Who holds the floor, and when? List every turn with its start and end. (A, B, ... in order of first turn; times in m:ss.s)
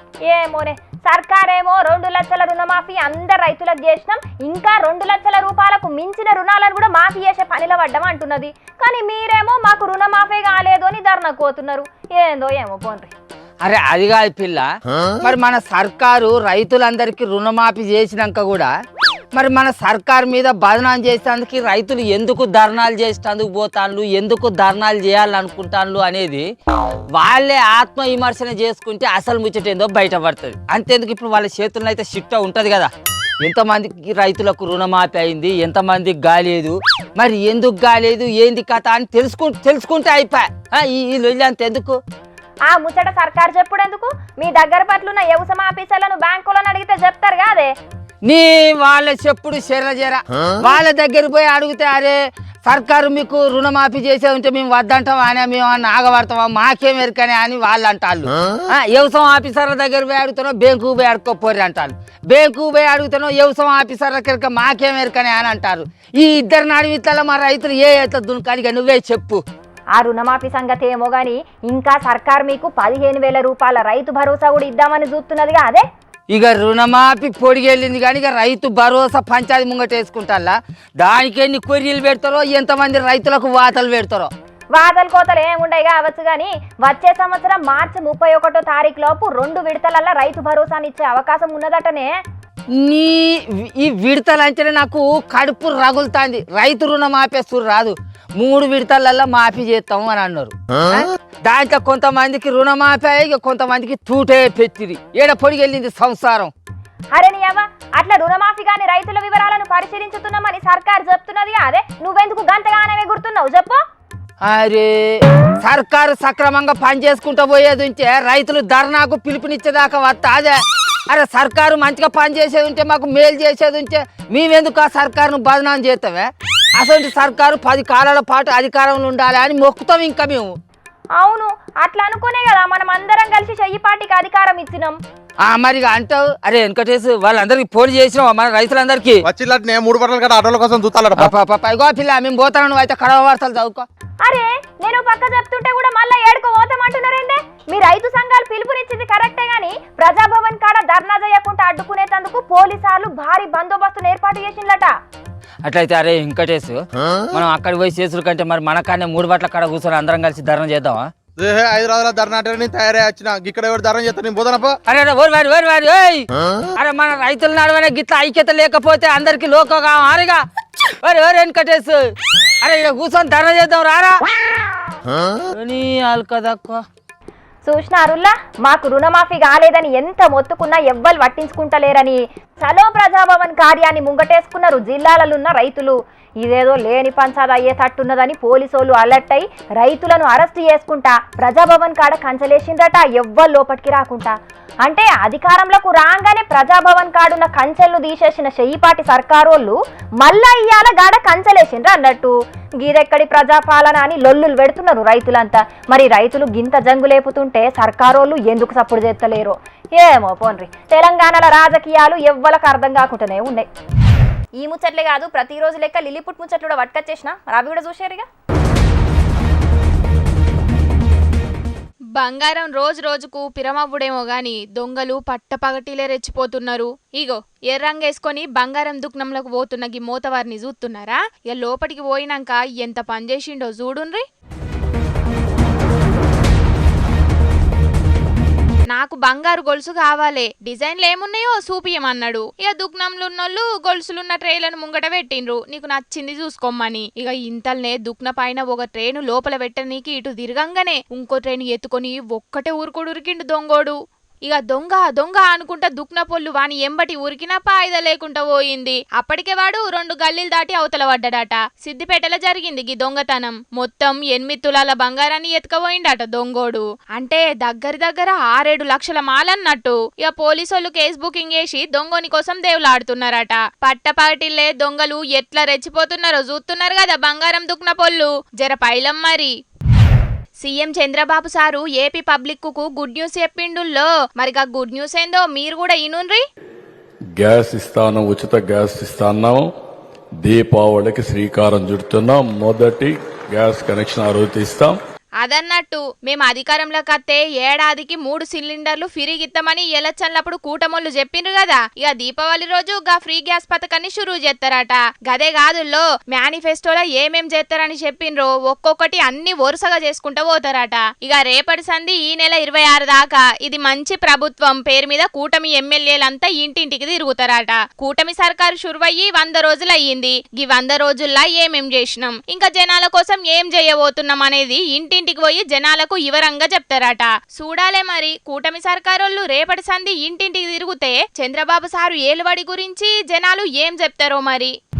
0:00.3-0:13.1 A
0:13.6-0:18.7 B
0:19.3-0:26.5 B
0:27.1-0:42.0 B
0:42.7-0:47.7 A
0:48.2-1:09.4 B
1:10.0-1:15.8 A
1:16.3-1:24.3 B
1:24.7-1:32.2 A
1:32.7-1:46.5 B
1:47.1-1:53.8 A
1:54.4-2:10.5 B
2:11.2-2:15.0 A
2:15.4-2:19.3 B
2:19.2-2:21.3 C
2:21.1-2:23.8 B
2:24.2-2:34.9 A
2:35.6-2:41.1 B
2:41.4-2:44.8 C
2:44.8-2:50.5 B
2:51.0-2:54.2 B
2:55.5-2:56.8 B
2:57.6-3:33.7 A
3:34.6-3:38.2 A
3:42.2-3:54.2 D
3:58.9-4:39.5 D
4:40.6-4:46.4 D
4:47.4-4:49.6 E
4:50.4-4:55.0 E
4:55.4-5:34.7 D